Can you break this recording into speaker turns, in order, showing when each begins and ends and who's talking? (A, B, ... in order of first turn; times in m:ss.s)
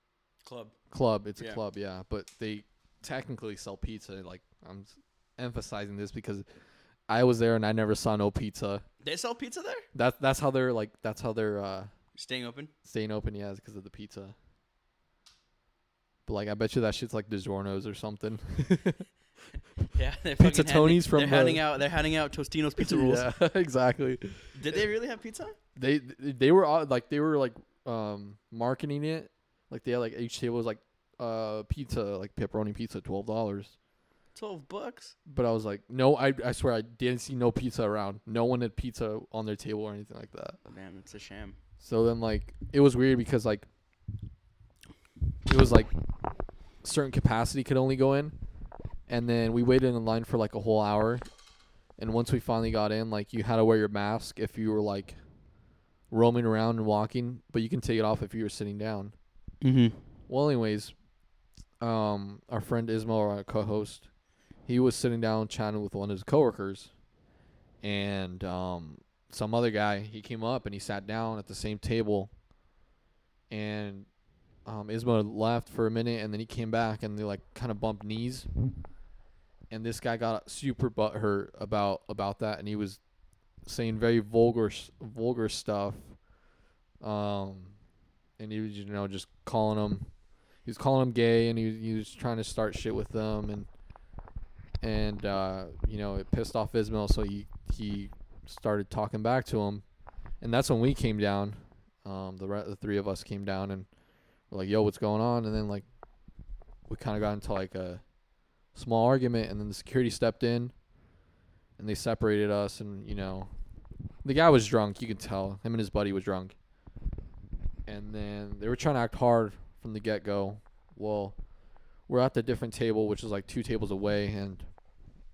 0:00.4-0:00.8 A
0:00.9-0:06.4 B
0:07.1-0:08.8 B
0:09.0-0:09.9 A
0:09.9-0:11.9 B
0:12.1-0:12.7 A
0:12.8-0:14.4 B
0:16.3-0:19.1 B
0:19.9-0:23.3 A
0:20.4-0:21.6 B
0:22.8-0:24.8 B
0:24.5-0:25.6 A
0:25.8-0:33.8 B
0:34.4-0:35.2 A
0:35.3-0:40.6 B
0:40.7-0:41.6 A
0:41.8-0:43.7 B
0:45.5-0:45.9 B
0:46.8-0:48.4 B
0:49.1-0:51.2 B
0:52.0-0:55.2 B
0:56.1-0:59.2 B
0:59.6-1:00.0 A
1:00.3-1:00.9 B
1:01.8-1:04.1 B
1:04.7-1:06.9 B
1:07.8-1:12.3 B
1:13.5-1:14.1 B
1:14.7-1:18.5 B
1:19.7-1:23.0 B
1:23.6-1:26.2 B
1:27.0-1:27.8 B
1:28.4-1:30.1 B
1:30.6-1:33.7 B
1:34.8-1:39.8 B
1:40.4-1:43.9 B
1:44.5-1:45.8 B
1:46.9-1:48.0 B
1:48.7-1:50.7 B
1:51.8-1:53.5 B
1:54.2-1:56.6 B
1:57.9-2:01.4 B
2:02.1-2:04.7 B